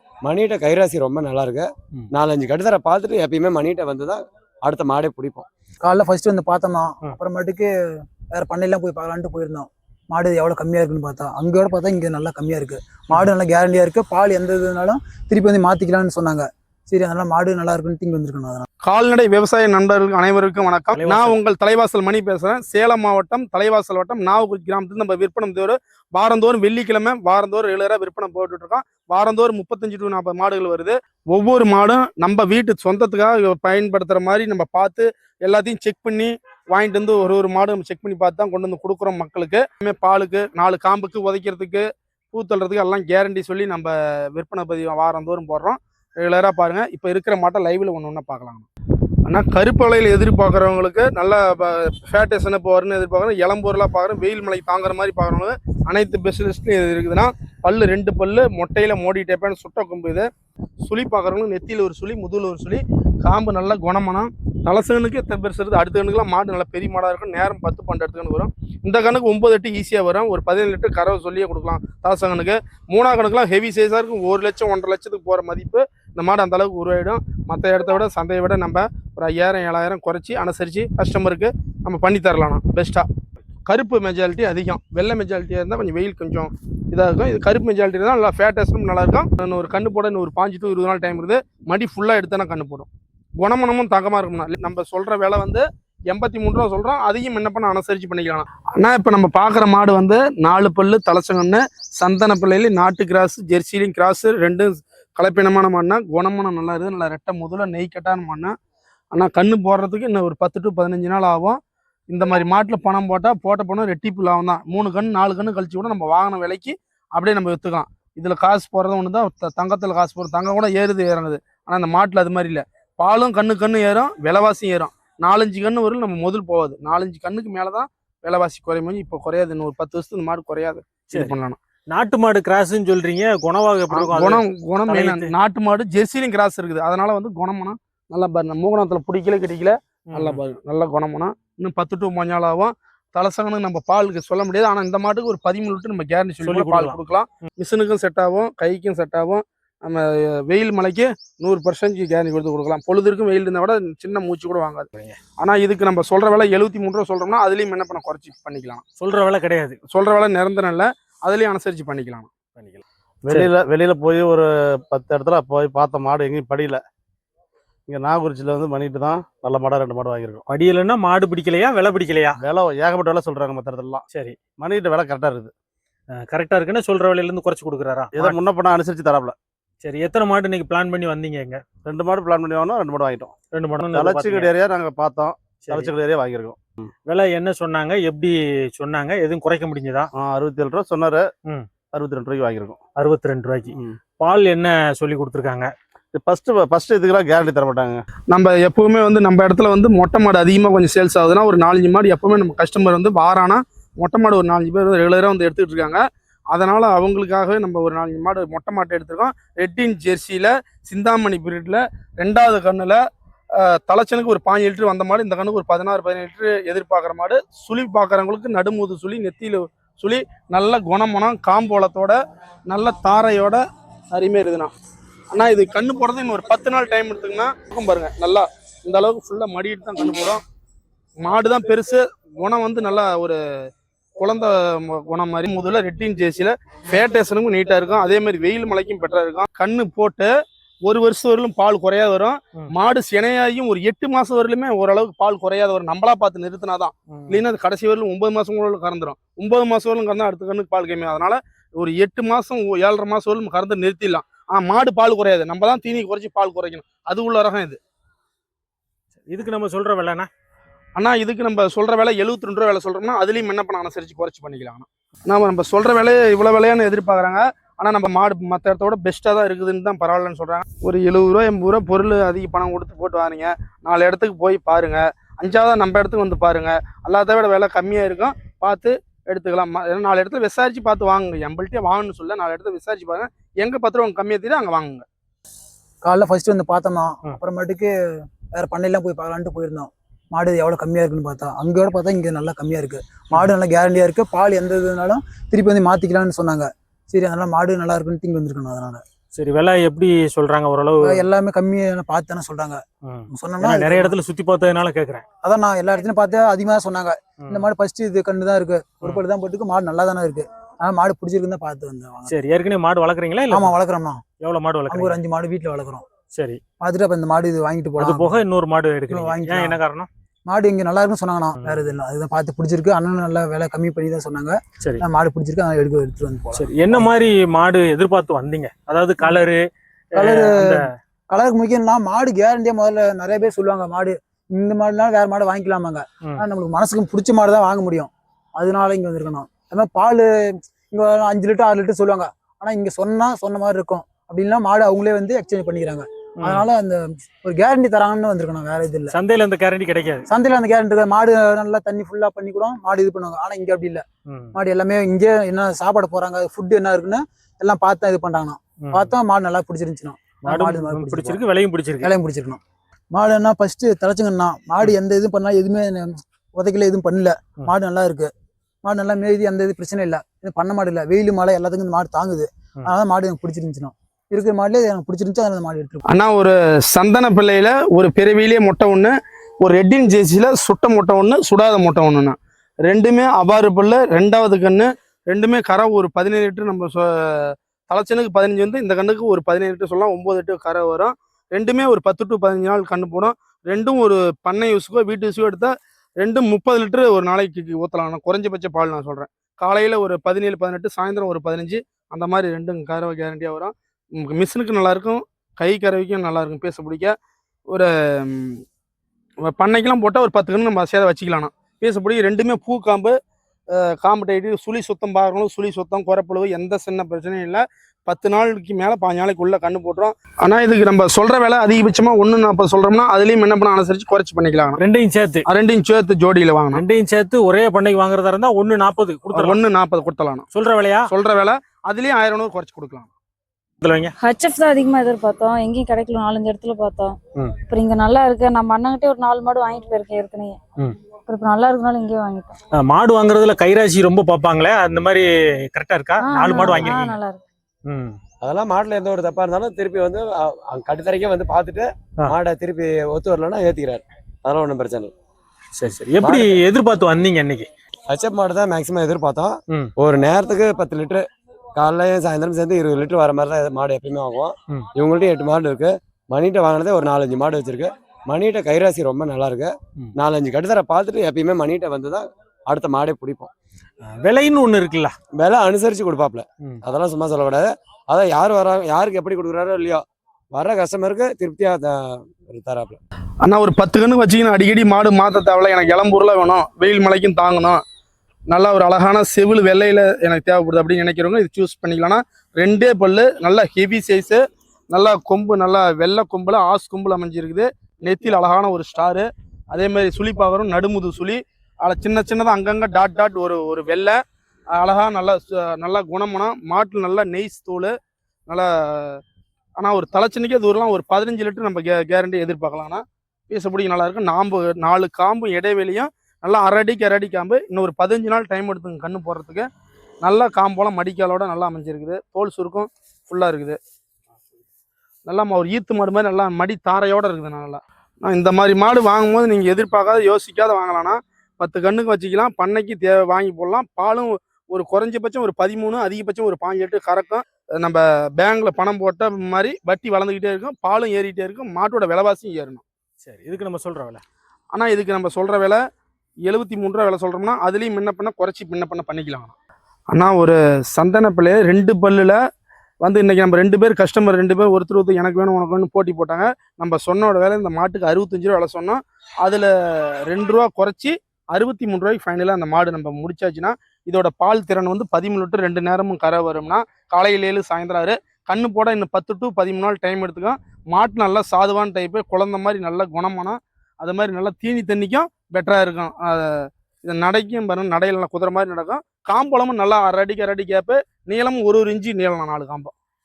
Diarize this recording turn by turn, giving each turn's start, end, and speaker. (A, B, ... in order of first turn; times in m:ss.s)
0:00.2-0:05.4 A
0:05.8-0:18.6 B
0:18.8-0:48.6 C
0:21.0-0:21.3 D
0:49.2-1:00.2 C
1:00.8-1:23.0 C
1:23.6-1:32.9 C
1:33.4-1:48.5 C
1:49.1-1:51.6 C
1:52.1-2:11.6 C
2:11.9-2:15.3 D
2:13.9-2:34.9 C
2:20.1-2:20.4 D
2:26.4-2:27.0 D
2:35.4-2:38.8 C
2:39.0-2:39.8 D
2:39.9-2:42.3 C
2:42.5-2:42.8 D
2:43.2-2:46.8 E
2:47.9-2:50.4 E
2:50.5-2:52.3 D
2:52.4-2:54.0 E
2:54.6-2:55.5 E
2:56.1-2:58.3 D
2:58.1-2:59.3 E
2:59.8-3:01.6 D
3:01.8-3:03.3 E
3:03.5-3:04.5 D
3:03.9-3:06.9 E
3:05.6-3:05.9 D
3:07.0-3:10.1 D
3:10.2-3:11.3 E
3:11.9-3:12.8 E
3:13.0-3:15.7 D
3:13.7-3:14.0 E
3:16.1-3:18.0 E
3:18.3-3:33.0 C
3:33.5-3:42.1 C
3:42.7-3:43.6 C
3:44.1-3:44.7 C
3:45.3-3:50.4 C
3:51.2-3:53.7 C
3:54.2-4:00.3 C
4:00.8-4:17.8 C
4:07.1-4:07.4 D
4:19.3-4:20.3 D
4:21.0-4:45.0 C
4:46.0-4:59.0 B
4:59.3-5:01.2 D
5:01.0-5:04.2 B
5:03.0-5:05.2 D
5:05.4-5:12.3 B
5:12.3-5:13.7 D
5:13.5-5:14.2 B
5:14.4-5:15.2 D
5:14.9-5:16.0 B
5:16.3-5:16.6 D
5:16.8-5:18.4 B
5:18.0-5:20.1 D
5:19.1-5:19.8 B
5:20.5-5:27.1 B
5:21.6-5:21.9 D
5:26.5-5:30.8 D
5:30.1-5:49.2 B
5:49.1-5:50.2 D
5:50.3-6:01.4 B
5:54.2-5:54.5 D
5:58.8-5:59.1 D
6:00.4-6:02.1 D
6:02.0-6:02.6 B
6:03.1-6:08.3 B
6:08.8-6:16.0 B
6:16.1-6:47.1 C
6:47.7-6:48.6 C
6:49.4-6:53.1 C
6:53.7-7:04.8 C
7:04.8-7:05.4 D
7:05.5-7:06.8 C
7:06.7-7:09.6 D
7:09.3-7:10.4 C
7:10.5-7:11.0 D
7:11.1-7:13.1 C
7:13.8-7:14.1 D
7:14.2-7:17.1 F
7:17.7-7:22.6 F
7:22.7-7:27.2 D
7:26.2-7:27.4 F
7:27.9-7:28.1 D
7:28.4-7:35.1 A
7:35.7-7:37.7 D
7:36.2-7:36.6 A
7:38.1-7:53.5 A
7:54.2-7:55.1 D
7:55.3-8:03.0 A
8:03.4-8:07.8 C
8:08.5-8:24.1 C
8:24.8-8:27.9 C
8:28.5-8:29.2 C
8:29.8-8:39.6 C
8:40.2-8:43.8 C
8:45.2-9:02.8 C
9:03.2-9:04.2 D
9:04.7-9:05.8 C
9:06.4-9:09.5 C
9:10.1-9:12.4 C
9:13.0-9:42.9 C